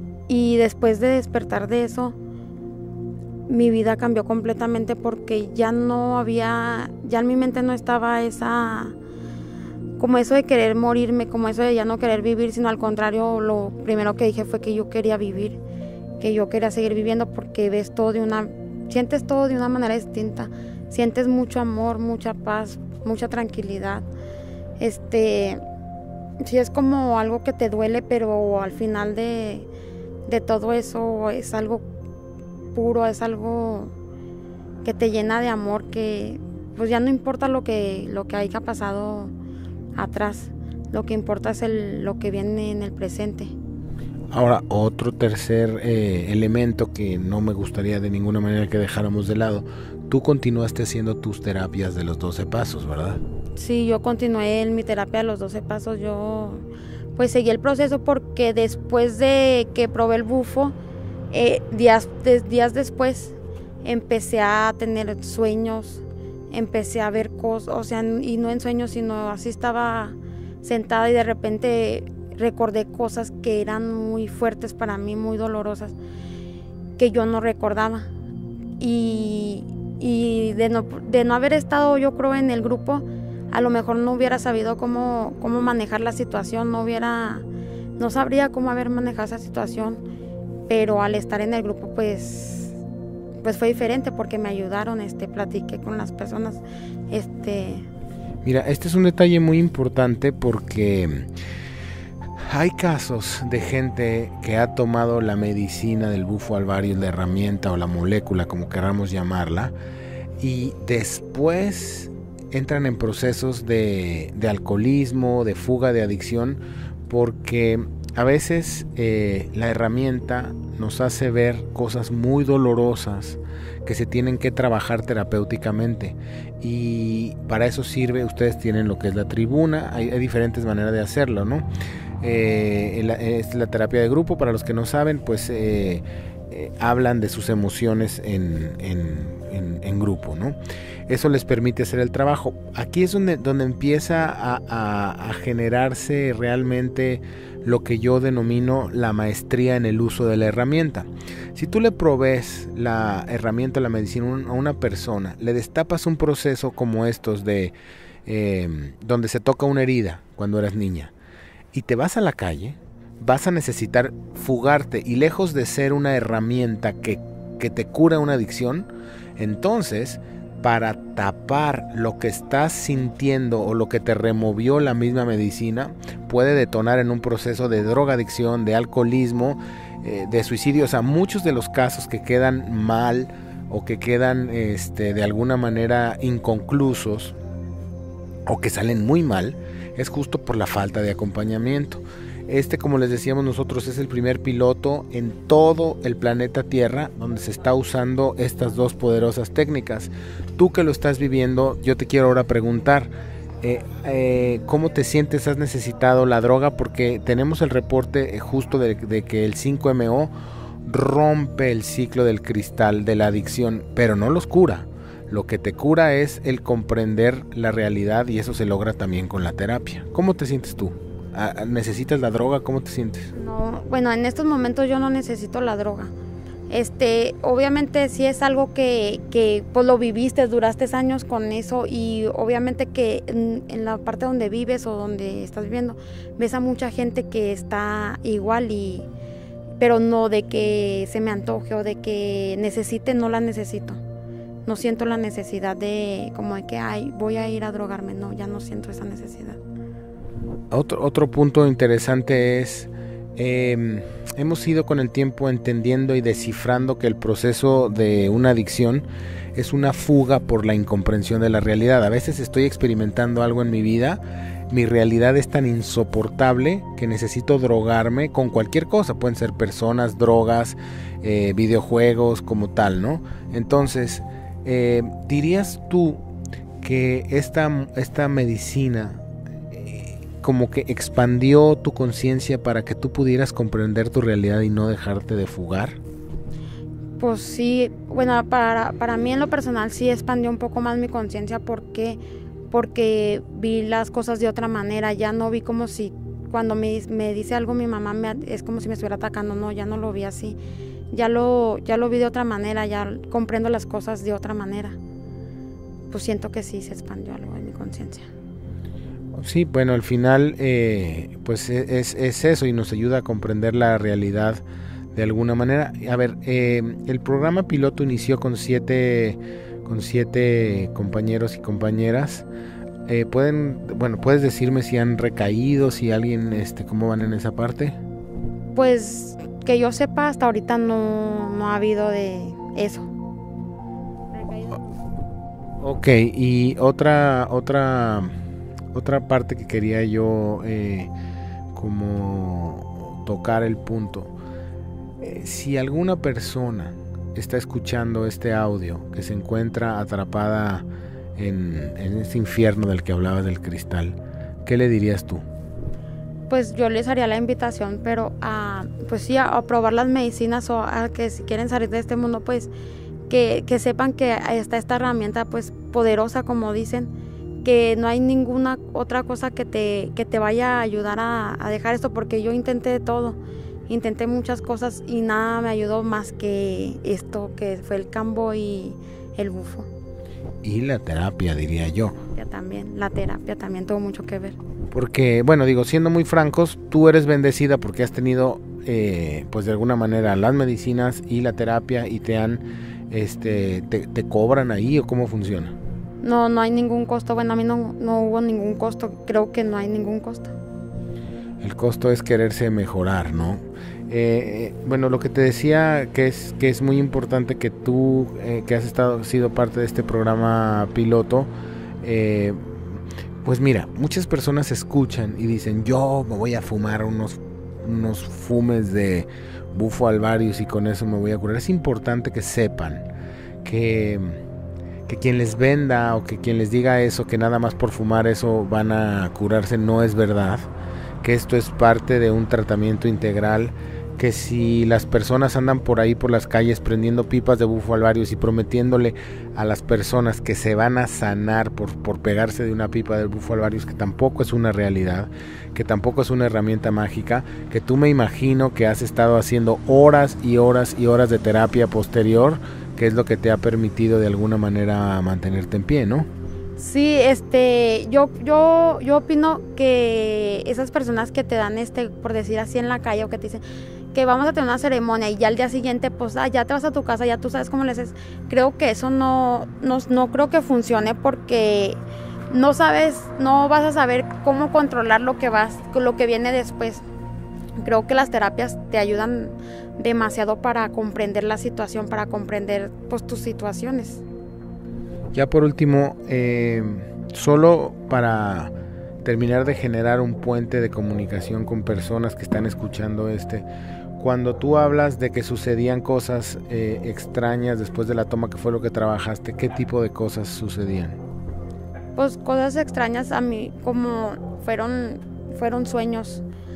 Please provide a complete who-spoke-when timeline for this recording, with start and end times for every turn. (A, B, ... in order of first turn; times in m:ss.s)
0:00.3-0:02.2 A
0:03.5-0:09.0 A
0:10.0-0:15.6 A
0:16.2-0:24.0 A
0:24.8-0:25.6 A
0:26.4-0:29.7 A
0:30.2-0:31.8 A
0:32.7-0:33.9 A
0:34.8-0:39.3 A
0:40.0-0:43.5 A
0:44.3-0:53.2 B
0:53.5-0:56.6 A
0:57.1-1:00.7 A
1:01.3-1:16.0 A
1:17.0-1:18.1 A
1:18.8-1:27.4 A
1:28.0-1:30.0 A
1:30.7-1:32.8 A
1:33.4-1:37.8 A
1:38.4-1:41.3 B
1:42.5-1:49.7 B
1:50.4-2:11.6 B
2:12.2-2:20.6 B
2:21.1-2:37.7 B
2:38.2-2:41.1 B
2:41.7-3:07.3 B
3:08.5-3:23.1 B
3:23.6-3:30.3 B
3:30.8-3:43.3 B
3:43.3-3:46.1 A
3:46.7-3:59.1 A
3:59.8-4:04.0 A
4:04.6-4:09.6 A
4:10.7-4:24.2 B
4:24.7-4:36.2 B
4:36.8-4:39.2 B
4:39.7-4:46.0 B
4:47.2-4:52.2 A
4:52.7-5:00.6 A
5:01.1-5:05.0 A
5:06.1-5:08.3 A
5:09.3-5:14.6 B
5:15.1-5:22.5 B
5:23.1-5:28.0 B
5:28.7-5:33.1 A
5:34.3-5:35.0 A
5:35.8-5:38.3 B
5:38.9-5:41.1 B
5:41.7-5:44.3 B
5:45.2-5:55.4 B
5:56.5-6:02.7 A
6:03.3-6:19.9 A
6:20.6-6:22.2 B
6:22.3-6:24.6 A
6:24.9-6:35.7 B
6:36.2-6:40.5 A
6:41.6-6:51.5 B
6:52.0-7:03.1 B
7:03.6-7:04.4 B
7:05.1-7:10.7 B
7:11.2-7:36.3 B
7:36.8-7:43.6 A
7:44.1-7:57.0 A
7:57.8-8:04.2 A
8:05.3-8:13.6 B
8:14.2-8:21.2 B
8:22.2-8:26.4 A